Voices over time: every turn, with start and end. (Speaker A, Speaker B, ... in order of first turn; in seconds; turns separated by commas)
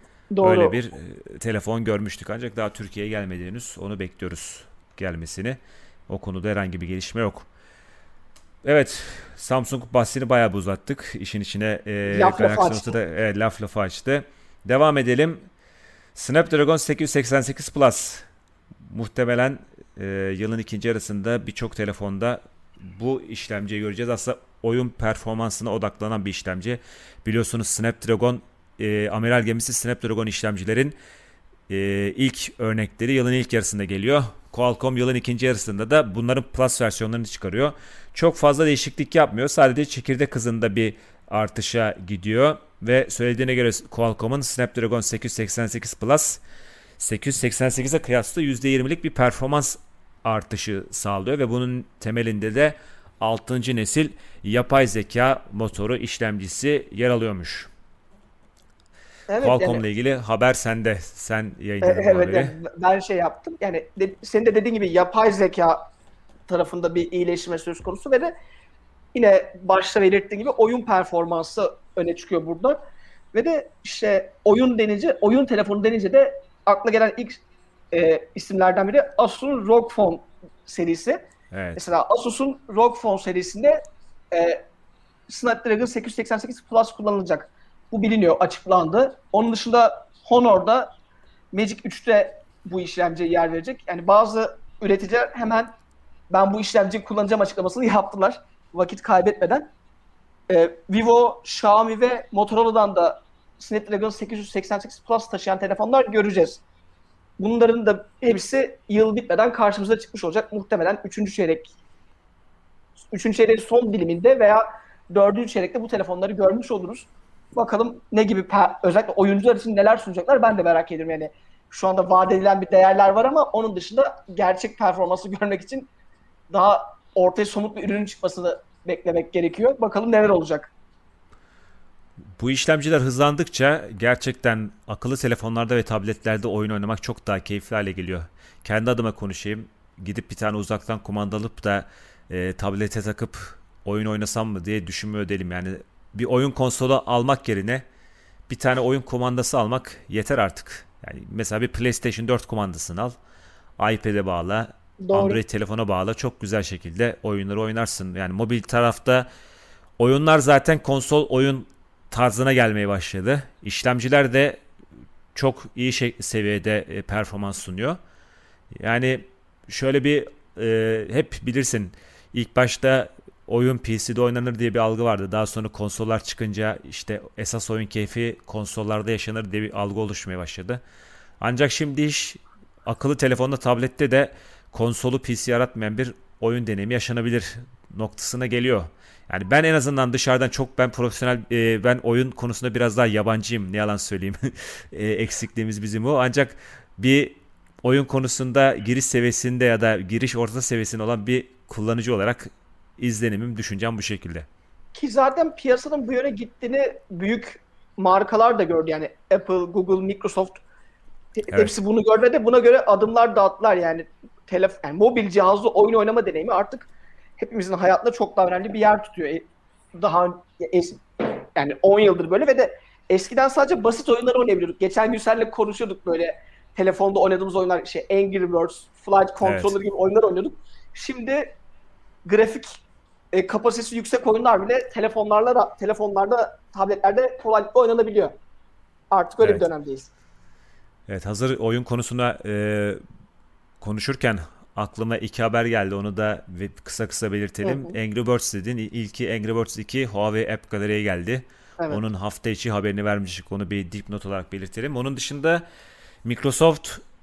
Speaker A: 0.3-0.8, Speaker B: 0.4-7.5, Speaker B: 8.6-15.5, Speaker A: 12.1-12.9, Speaker B: 16.1-18.2, Speaker B: 18.8-30.9, Speaker B: 31.7-46.4, Speaker B: 47.0-57.7, Speaker A: 59.3-59.8, Speaker B: 59.4-62.5, Speaker A: 61.8-65.8, Speaker A: 66.5-68.3, Speaker A: 69.1-72.8, Speaker A: 73.3-81.2, Speaker B: 81.5-81.8, Speaker A: 81.8-83.8, Speaker A: 84.3-84.6, Speaker A: 85.3-90.9, Speaker A: 91.5-95.7, Speaker A: 96.3-99.7, Speaker A: 100.5-106.6, Speaker A: 107.4-111.7, Speaker A: 113.1-125.9, Speaker A: 126.5-130.7, Speaker B: 132.4-147.8, Speaker B: 148.5-153.1, Speaker B: 153.8-159.3, Speaker A: 155.0-155.4, Speaker B: 160.0-164.6, Speaker B: 165.3-168.0, Speaker B: 168.7-180.8, Speaker B: 181.4-204.5, Speaker A: 204.9-210.6, Speaker A: 211.3-231.5, Speaker B: 229.4-229.7, Speaker A: 232.2-232.8, Speaker A: 233.3-238.3, Speaker A: 239.1-240.1, Speaker B: 241.1-243.0, Speaker B: 243.8-255.6, Speaker A: 247.6-247.9, Speaker B: 256.2-257.0